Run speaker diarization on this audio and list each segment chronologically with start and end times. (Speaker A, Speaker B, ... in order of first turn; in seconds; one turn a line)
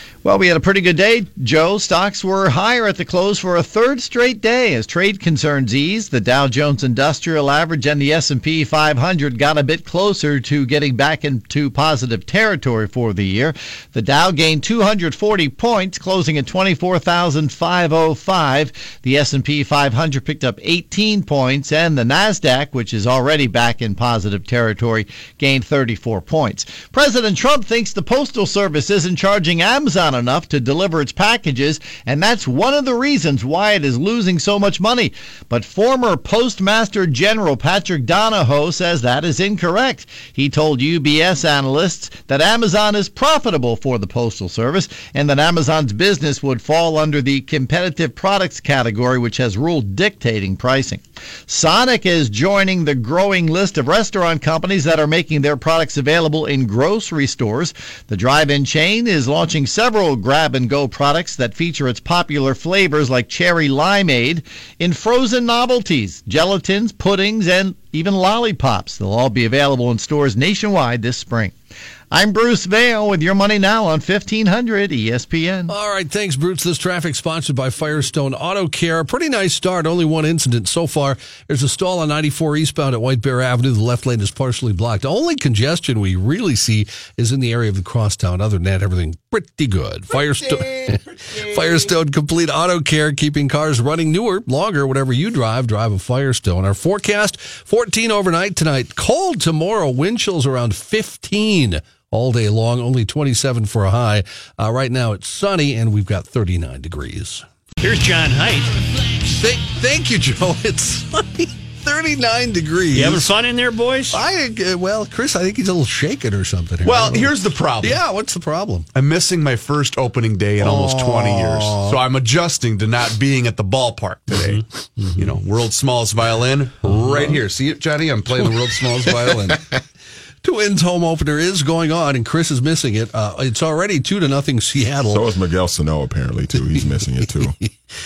Speaker A: 0.2-71.5
Speaker A: 72.1-75.7
Speaker B: 75.7-107.4
Speaker C: 107.8-108.7
Speaker B: 109.2-113.3
Speaker C: 112.9-114.2
Speaker B: 114.1-118.9
Speaker D: 116.8-118.0
Speaker D: 118.9-124.6
Speaker B: 120.6-122.0
Speaker C: 124.4-125.2
Speaker D: 125.1-129.7
Speaker B: 130.4-135.3
Speaker E: 135.1-137.5
Speaker B: 136.5-137.7